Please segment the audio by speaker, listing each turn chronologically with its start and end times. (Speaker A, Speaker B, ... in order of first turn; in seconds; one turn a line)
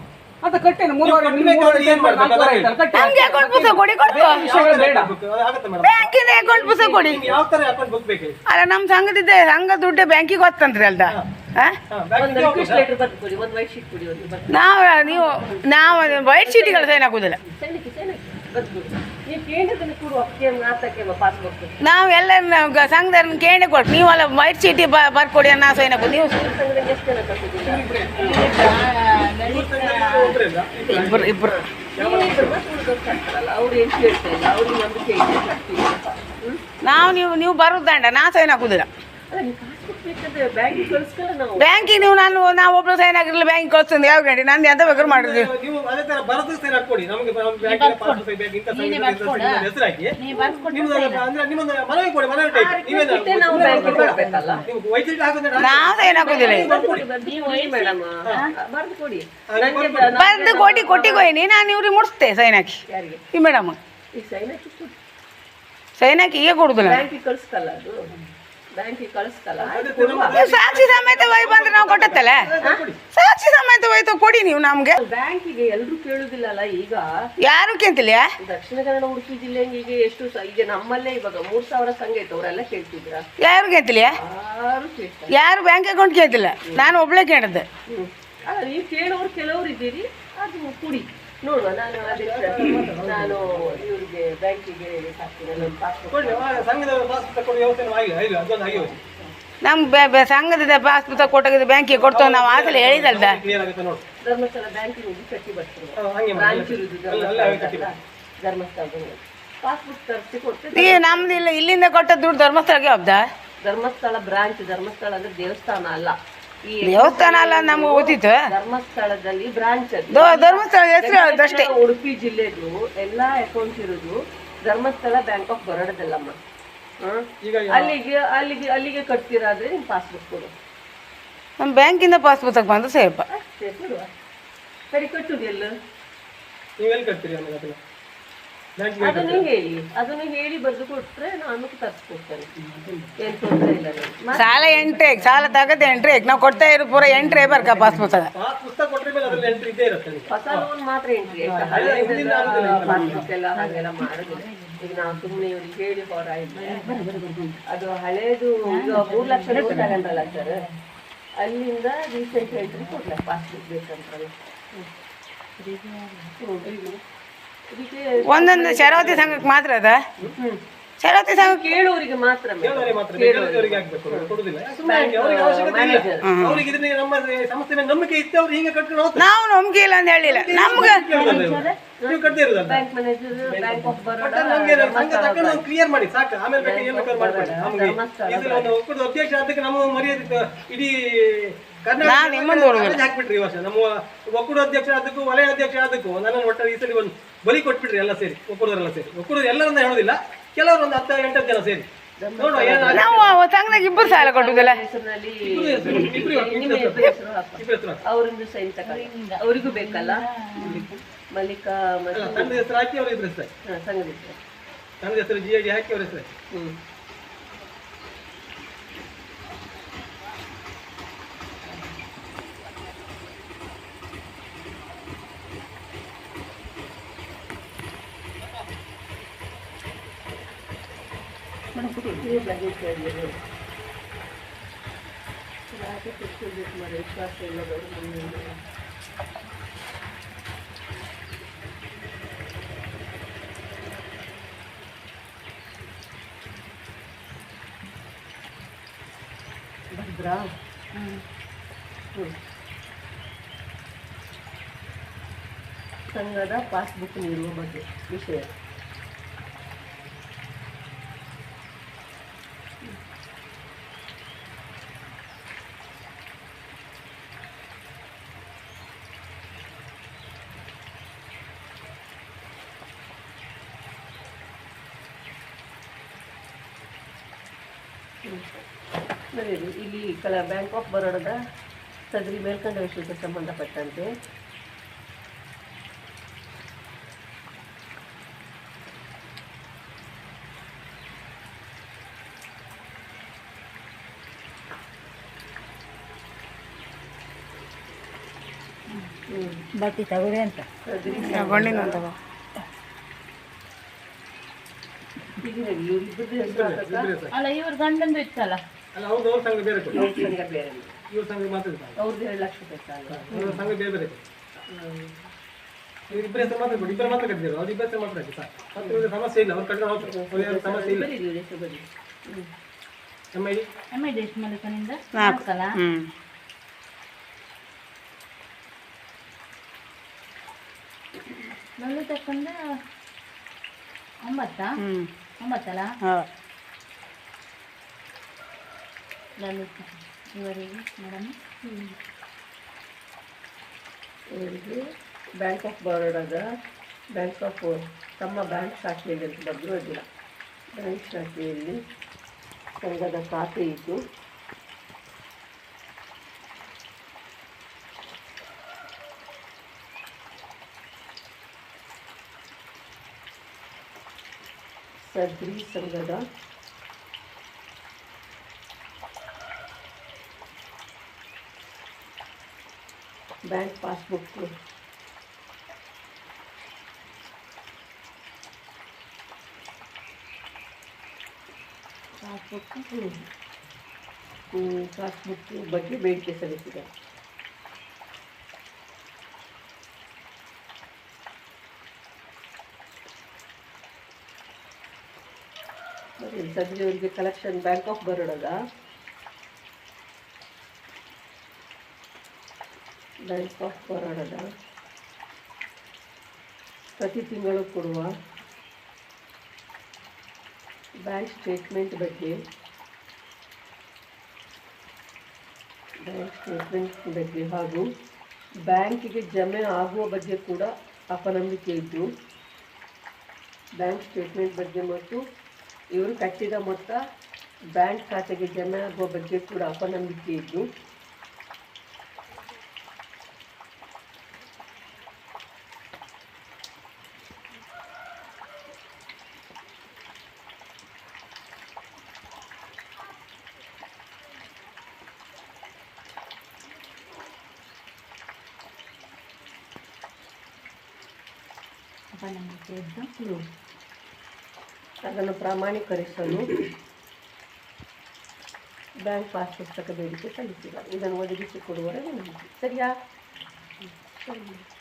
Speaker A: 0.4-5.1
Speaker B: 1.0-2.8
Speaker C: 2.9-4.6
Speaker B: 4.0-6.2
Speaker C: 5.8-7.2
Speaker D: 6.2-7.4
Speaker B: 7.1-8.4
Speaker C: 8.5-11.8
Speaker B: 11.9-12.8
Speaker D: 12.2-21.8
Speaker C: 14.5-17.4
Speaker C: 21.8-26.4
Speaker D: 25.6-28.7
Speaker B: 27.7-28.8
Speaker E: 28.1-30.4
Speaker B: 29.4-31.3
Speaker C: 30.9-31.6
Speaker D: 30.9-36.6
Speaker B: 32.0-32.5
Speaker C: 36.8-38.9
Speaker D: 39.3-42.8
Speaker C: 41.6-45.5
Speaker B: 44.9-50.1
Speaker E: 47.6-49.6
Speaker E: 50.2-51.2
Speaker D: 50.3-50.7
Speaker B: 50.7-57.0
Speaker D: 52.5-54.7
Speaker E: 53.5-54.7
Speaker A: 53.7-54.1
Speaker C: 55.6-56.7
Speaker D: 56.1-61.5
Speaker A: 56.2-56.6
Speaker E: 57.2-58.5
Speaker B: 59.5-60.1
Speaker C: 60.1-62.8
Speaker D: 62.9-63.2
Speaker C: 63.3-63.8
Speaker D: 64.1-64.9
Speaker C: 66.0-67.0
Speaker D: 66.8-68.1
Speaker D: 68.7-70.5
Speaker B: 69.6-73.0
Speaker C: 70.3-72.5
Speaker C: 73.1-75.0
Speaker D: 75.0-77.0
Speaker C: 77.4-78.2
Speaker D: 78.4-83.2
Speaker C: 83.4-84.2
Speaker D: 84.1-85.3
Speaker C: 85.3-87.6
Speaker D: 86.7-86.9
Speaker D: 87.9-96.7
Speaker B: 92.0-93.9
Speaker B: 96.1-98.9
Speaker D: 98.7-99.3
Speaker C: 99.6-103.4
Speaker B: 101.9-104.0
Speaker D: 104.2-111.4
Speaker B: 106.0-107.9
Speaker C: 110.7-113.2
Speaker D: 113.6-116.1
Speaker D: 116.7-126.3
Speaker C: 116.8-118.4
Speaker C: 120.1-121.7
Speaker D: 127.0-130.5
Speaker B: 127.4-127.9
Speaker C: 131.6-133.2
Speaker D: 133.3-134.1
Speaker D: 134.9-135.7
Speaker B: 136.8-137.8
Speaker B: 138.8-139.4
Speaker D: 139.0-142.5
Speaker B: 142.8-143.0
Speaker D: 143.2-145.4
Speaker C: 144.3-148.3
Speaker E: 145.5-148.0
Speaker B: 148.2-150.6
Speaker E: 149.3-149.5
Speaker D: 150.3-157.0
Speaker E: 151.3-152.0
Speaker B: 151.5-153.2
Speaker E: 152.6-155.4
Speaker E: 156.5-157.6
Speaker D: 157.7-160.6
Speaker E: 158.7-160.7
Speaker D: 161.4-164.9
Speaker E: 162.3-163.0
Speaker E: 165.6-166.3
Speaker D: 166.4-166.9
Speaker D: 167.7-169.5
Speaker C: 168.3-170.0
Speaker C: 171.0-171.7
Speaker D: 171.3-176.3
Speaker B: 172.6-179.2
Speaker C: 176.2-176.6
Speaker C: 179.2-181.0
Speaker B: 180.2-182.8
Speaker E: 180.6-181.7
Speaker D: 181.1-181.4
Speaker D: 182.0-185.6
Speaker B: 183.4-201.9
Speaker D: 186.6-188.8
Speaker C: 192.0-193.0
Speaker D: 202.2-212.6
Speaker B: 202.4-203.2
Speaker C: 202.9-204.8
Speaker B: 205.4-208.0
Speaker E: 208.8-211.0
Speaker B: 212.1-213.5
Speaker D: 213.7-214.4
Speaker B: 215.0-216.3
Speaker C: 231.7-232.4
Speaker D: 232.2-233.4
Speaker D: 235.7-238.6
Speaker D: 249.9-250.5
Speaker E: 250.9-251.2
Speaker D: 256.1-258.5
Speaker D: 278.2-278.6
Speaker D: 279.3-281.4
Speaker D: 282.1-284.1
Speaker D: 299.3-299.6
Speaker E: 299.8-301.5
Speaker D: 300.9-302.0
Speaker C: 301.1-302.1
Speaker D: 305.3-307.1
Speaker B: 306.4-307.3
Speaker E: 307.3-308.6
Speaker B: 308.9-310.0
Speaker D: 309.9-310.9
Speaker B: 311.1-311.9
Speaker D: 312.0-313.6
Speaker B: 313.1-314.2
Speaker D: 314.6-315.2
Speaker D: 316.1-316.4
Speaker B: 316.1-321.1
Speaker E: 316.7-317.2
Speaker D: 318.8-319.0
Speaker D: 320.0-322.5
Speaker B: 323.3-323.6
Speaker E: 323.9-325.7
Speaker C: 325.1-326.1
Speaker E: 331.8-332.5
Speaker E: 334.2-334.8
Speaker C: 334.8-335.1
Speaker E: 335.4-335.9
Speaker E: 339.4-341.3
Speaker D: 341.6-341.9
Speaker D: 344.3-344.8
Speaker D: 345.4-346.4
Speaker D: 347.1-350.0
Speaker D: 350.8-351.8
Speaker D: 352.8-354.0
Speaker D: 365.0-366.2
Speaker D: 373.5-374.5
Speaker E: 382.2-382.8
Speaker D: 382.9-383.2
Speaker D: 384.5-386.9
Speaker D: 396.2-398.6
Speaker D: 403.3-404.4
Speaker D: 407.0-408.1
Speaker D: 411.0-412.3
Speaker D: 416.0-417.8
Speaker D: 418.6-422.1
Speaker D: 423.8-425.2
Speaker D: 425.9-427.0
Speaker D: 427.7-430.6
Speaker E: 452.1-453.1
Speaker D: 453.2-453.4
Speaker D: 455.1-456.6
Speaker D: 459.0-462.9
Speaker D: 464.2-464.6